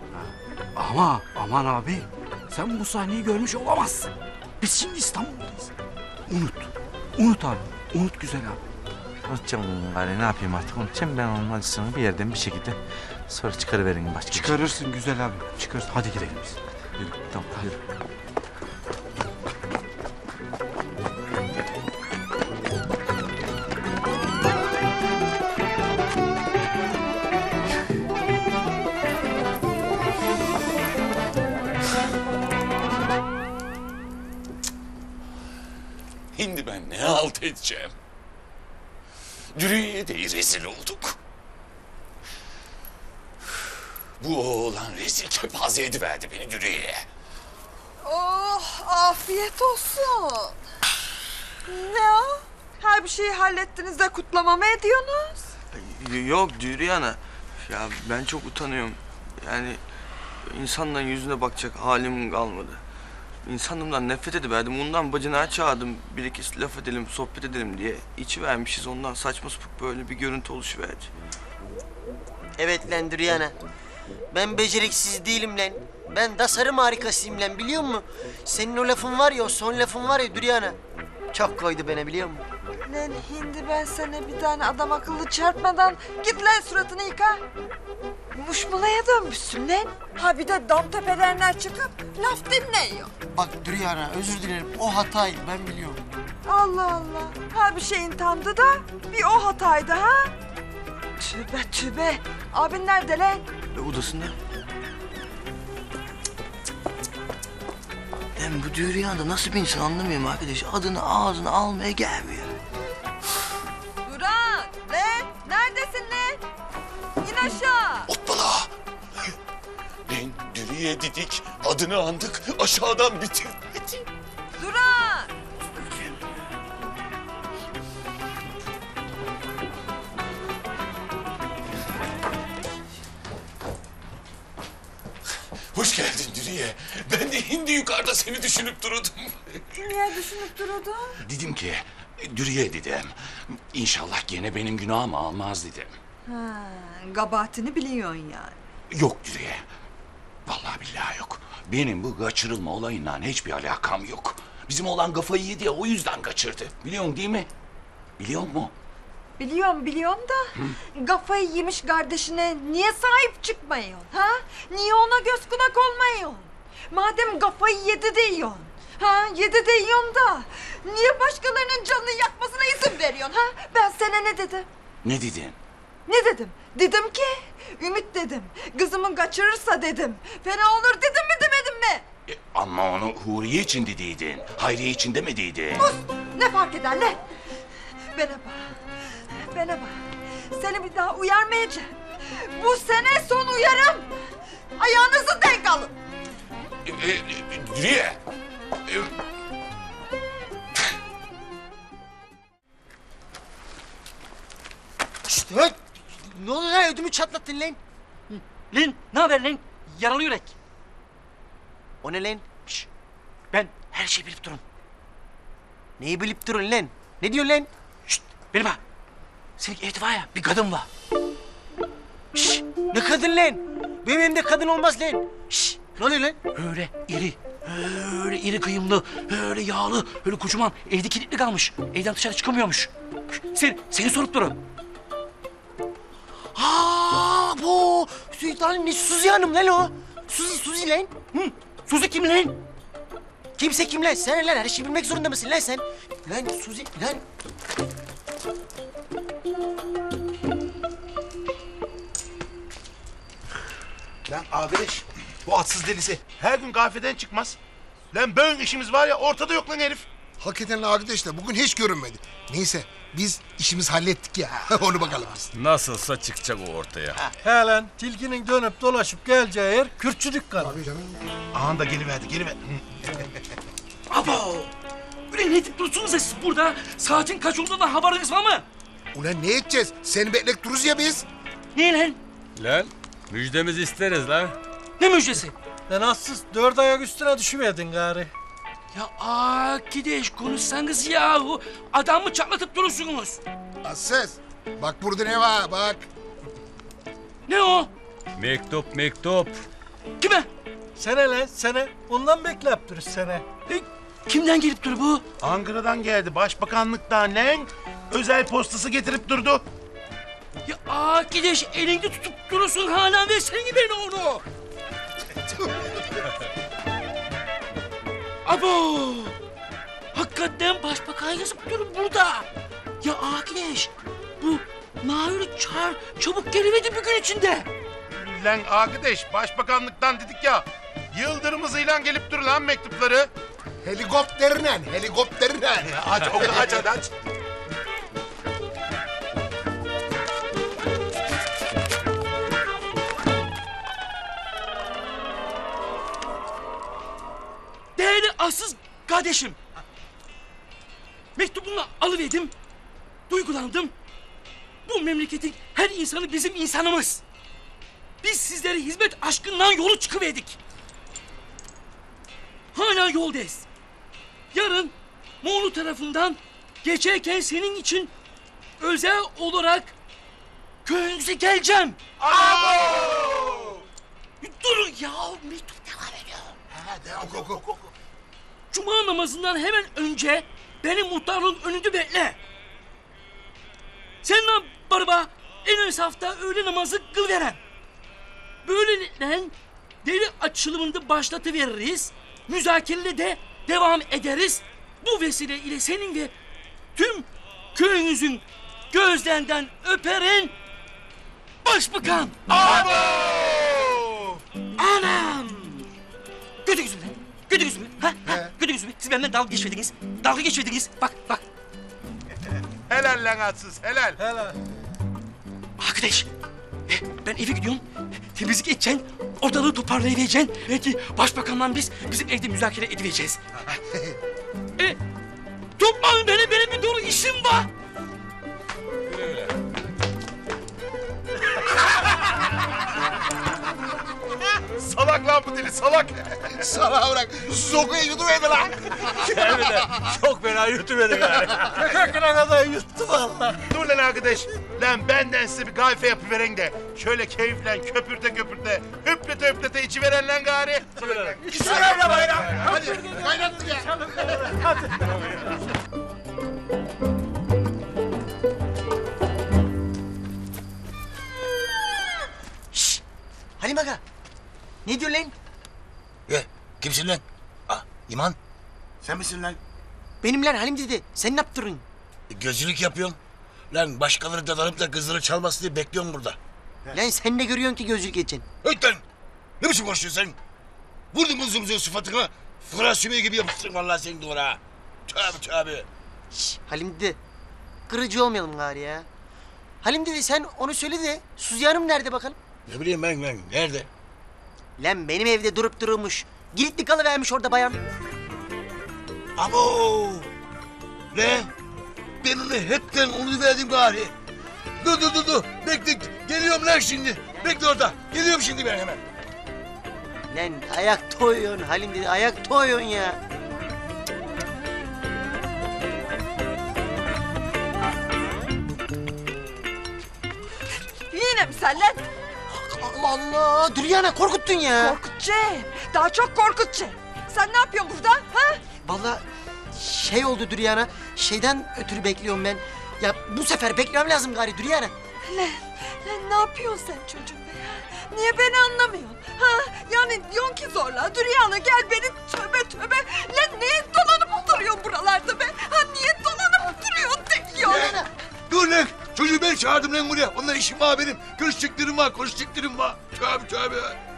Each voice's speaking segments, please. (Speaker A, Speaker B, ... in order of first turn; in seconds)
Speaker A: 0.1-4.1, 4.6-5.7, 6.3-8.6, 14.3-16.6
Speaker B: 4.6-5.6, 208.3-210.5, 213.5-214.6, 218.1-218.8, 219.6-220.8, 226.5-232.9, 233.5-234.6, 241.9-242.6, 274.1-274.7, 275.3-278.6, 281.7-282.2, 285.0-285.5, 288.9-293.4, 297.5-297.9, 300.2-300.5, 303.7-305.2, 310.6-314.4, 318.4-319.3, 320.1-322.4, 323.0-327.7, 347.9-349.6, 351.4-352.5, 353.3-353.9, 354.9-357.2, 358.2-360.6, 362.7-363.6, 364.5-368.1, 368.8-369.9, 370.8-373.5, 374.4-376.6, 378.7-382.4, 384.2-387.6, 388.6-396.3, 396.9-400.5, 401.6-402.8, 404.8-405.7, 406.6-411.4, 415.8-416.3, 416.9-417.8, 418.3-423.4, 425.8-427.7
Speaker C: 9.3-14.6, 17.0-17.7
Speaker D: 36.3-37.9, 39.5-41.1, 44.2-47.0, 118.1-118.7, 120.1-124.0, 135.7-139.4, 141.2-145.9, 148.9-149.6, 150.4-157.5, 158.2-158.7, 175.0-175.6, 182.3-185.8, 196.8-198.2
Speaker E: 48.0-50.6, 51.6-55.4, 82.8-87.4, 88.3-93.1, 96.5-100.3, 101.2-103.4, 114.0-116.4, 117.2-118.1, 124.6-125.3, 139.7-141.2, 146.3-148.6, 159.4-174.7, 176.1-182.1, 185.8-187.2, 188.1-188.7, 189.4-190.0, 190.5-191.9, 192.5-194.1, 194.8-195.9, 521.1-522.0, 524.8-528.6, 535.3-547.9
Speaker F: 55.7-59.8, 60.4-62.8, 63.4-71.1, 103.7-104.3, 108.4-112.5
Speaker G: 72.6-73.5, 74.3-80.8, 81.3-82.4, 93.3-96.0, 205.3-207.8, 212.0-212.8, 216.0-217.7, 222.6-226.4, 236.6-241.5, 243.6-247.2, 462.7-463.0, 463.6-464.0, 464.8-465.3, 470.2-471.8, 476.9-478.4, 486.3-487.2, 487.9-489.1, 489.8-492.4, 494.8-497.8, 510.3-513.2, 522.5-525.0, 528.8-534.9, 547.7-548.0
Speaker H: 254.3-255.0, 372.2-373.8, 376.8-377.6, 402.5-404.2, 429.1-429.4, 466.3-468.3, 469.0-469.6, 472.3-473.1, 473.7-477.0, 478.6-479.0, 479.6-480.4, 481.1-485.9, 492.7-493.9, 499.4-500.3, 501.1-501.5, 502.2-504.1, 504.8-509.0, 547.6-554.0
Speaker I: 255.4-257.6, 258.1-260.1, 271.5-272.8, 305.4-309.6, 328.1-333.3, 335.9-337.1, 412.9-414.2, 434.8-436.4, 443.7-452.5
Speaker J: 260.4-265.5, 270.7-271.1, 279.1-281.3, 293.8-296.1, 333.8-336.8, 436.6-439.8, 451.5-454.6
Speaker K: 265.5-267.2, 282.6-284.6, 298.4-299.6
Speaker L: 267.4-270.8, 285.9-288.3, 301.0-303.4, 441.6-443.6, 451.6-455.1